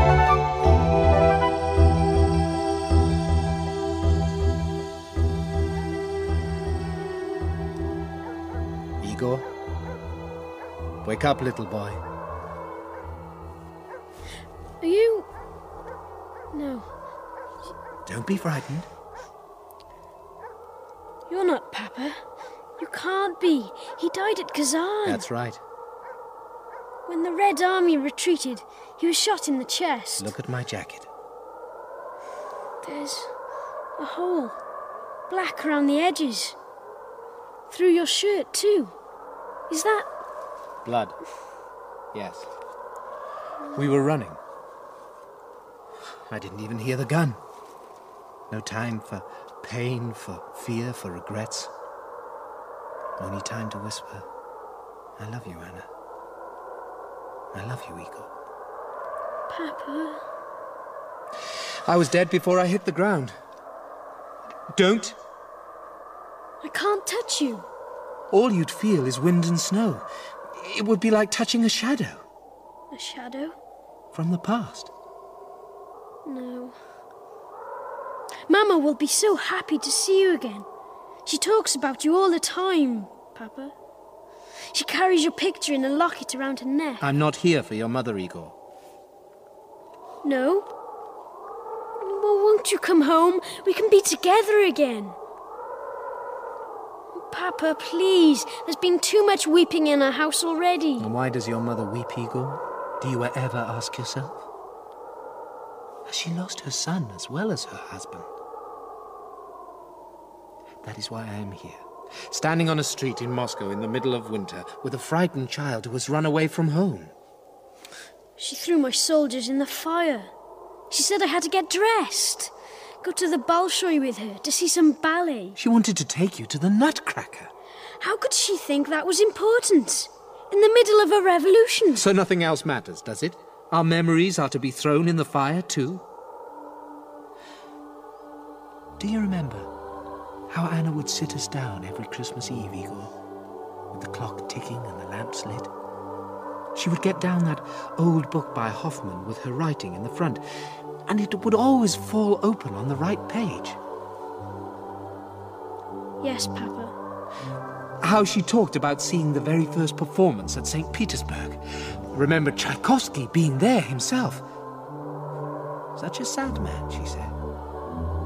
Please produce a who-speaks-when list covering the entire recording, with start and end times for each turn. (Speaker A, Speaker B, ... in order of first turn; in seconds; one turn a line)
Speaker A: 9.0-9.4
Speaker A: 11.0-12.0
Speaker B: 14.8-15.3
Speaker B: 16.5-16.9
Speaker A: 18.1-18.9
Speaker B: 21.3-22.2
Speaker B: 22.8-25.3
Speaker A: 25.1-25.6
Speaker B: 27.1-30.3
Speaker A: 30.2-31.1
Speaker B: 32.8-33.3
Speaker B: 34.0-34.6
Speaker B: 35.3-36.6
Speaker B: 37.7-38.9
Speaker B: 39.7-40.1
Speaker A: 40.9-41.1
Speaker A: 42.1-42.5
Speaker A: 43.8-44.4
Speaker A: 46.3-47.4
Speaker A: 48.5-51.7
Speaker A: 53.2-54.3
Speaker A: 55.2-55.9
Speaker A: 57.5-58.3
Speaker B: 59.5-60.2
Speaker A: 61.9-63.3
Speaker A: 64.7-65.2
Speaker B: 66.6-67.7
Speaker A: 68.3-70.0
Speaker A: 70.6-72.2
Speaker B: 72.9-73.6
Speaker A: 74.1-74.9
Speaker B: 76.2-76.8
Speaker B: 78.5-80.7
Speaker B: 81.2-83.7
Speaker B: 84.7-87.0
Speaker A: 87.0-88.5
Speaker B: 90.2-90.7
Speaker B: 92.0-95.2
Speaker B: 97.2-101.1
Speaker A: 101.0-104.4
Speaker A: 106.1-108.3
Speaker A: 110.8-117.1
Speaker B: 118.4-120.3
Speaker B: 120.9-125.6
Speaker A: 125.6-127.5
Speaker B: 128.0-132.1
Speaker A: 132.0-136.0
Speaker A: 139.0-139.7
Speaker A: 140.5-143.1
Speaker A: 143.9-145.7
Speaker A: 146.8-150.4
Speaker A: 151.1-153.8
Speaker B: 156.2-156.9
Speaker A: 158.0-161.6
Speaker A: 162.1-164.4
Speaker A: 166.0-167.3